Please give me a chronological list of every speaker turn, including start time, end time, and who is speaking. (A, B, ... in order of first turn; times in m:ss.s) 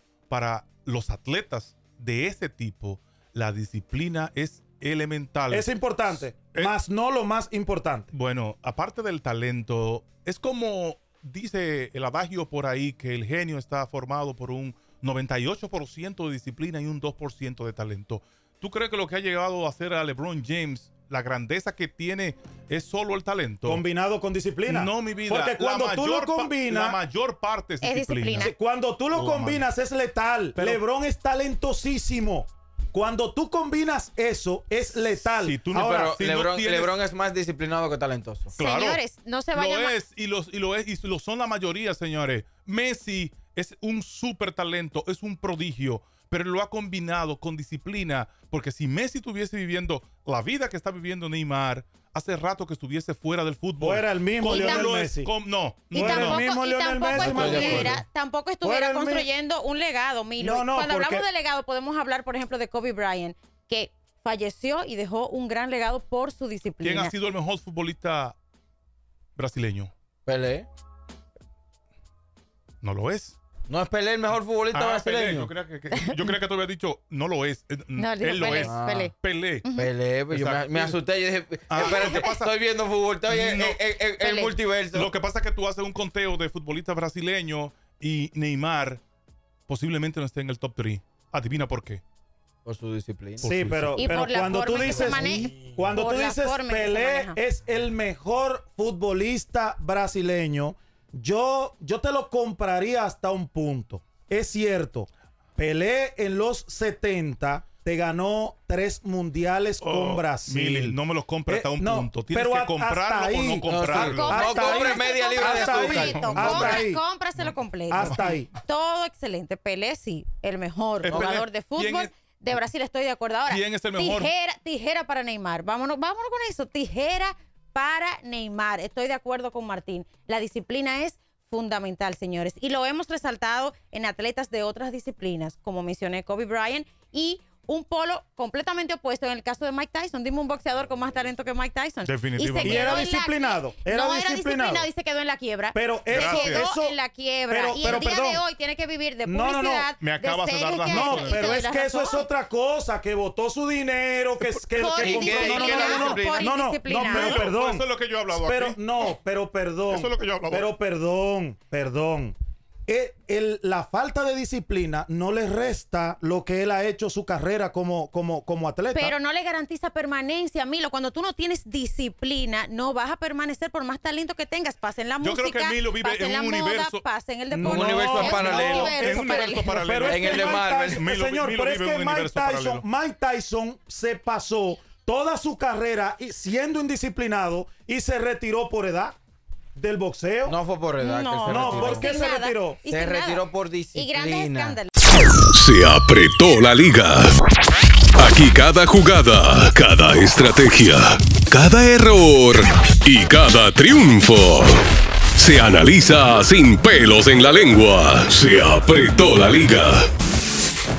0:00.3-0:06.7 A
0:05.5-0:08.1 B
0:08.1-0:23.8 A
0:23.6-0:27.0 B
0:24.7-0:28.5 A
0:27.8-0:28.5 C
0:28.4-0:36.1 B
0:29.1-0:29.7 A
0:30.6-0:30.8 A
0:35.0-0:37.0 A
0:35.7-0:38.5 D
0:38.5-0:39.0 A
0:38.6-0:40.0 C
0:39.5-0:56.4 A
0:53.8-0:55.3 B
0:54.5-0:54.9 C
0:55.9-0:58.0 B
0:55.9-1:07.1 C
0:57.1-0:58.0 A
0:57.3-0:57.8 D
0:58.6-0:59.3 B
1:00.4-1:01.3 B
1:06.8-1:08.4 A
1:09.4-1:09.9 A
1:10.3-1:10.7 D
1:12.8-1:13.4 A
1:13.7-1:15.5 D
1:14.7-1:19.7 A
1:15.9-1:16.3 C
1:18.0-1:19.9 C
1:18.6-1:19.1 D
1:19.8-1:25.1 D
1:20.3-1:21.0 A
1:21.7-1:22.6 A
1:21.8-1:22.3 C
1:23.2-1:23.8 A
1:24.2-1:24.6 C
1:24.9-1:29.0 A
1:29.7-1:32.0 A
1:32.6-1:33.5 D
1:33.4-1:34.1 A
1:33.4-1:57.0 B
1:34.0-1:37.4 C
1:49.8-1:54.4 A
1:53.7-1:56.1 D
1:54.0-2:32.3 C
1:55.8-1:56.8 A
1:57.4-1:58.3 A
1:57.9-1:58.5 B
2:01.0-2:02.1 A
2:03.5-2:04.3 A
2:22.0-2:23.0 A
2:22.6-2:24.9 B
2:25.7-2:27.0 B
2:26.1-2:26.7 A
2:27.5-2:28.5 B
2:29.2-2:29.9 B
2:30.0-2:31.6 A
2:30.9-2:42.4 B
2:34.4-2:34.8 A
2:34.8-2:37.5 C
2:34.8-2:36.5 D
2:35.6-2:36.0 A
2:37.0-2:38.8 A
2:39.9-2:40.7 A
2:42.9-2:49.1 B
2:48.9-2:59.8 C
2:55.2-3:02.8 A
2:57.6-2:59.0 D
2:57.7-3:09.2 B
3:00.0-3:01.0 D
3:09.8-3:10.6 B
3:10.5-3:12.2 D
3:11.0-3:15.0 C
3:11.5-3:12.8 B
3:12.9-3:14.8 D
3:15.5-3:17.4 E
3:18.2-3:24.8 E
3:25.4-3:30.1 E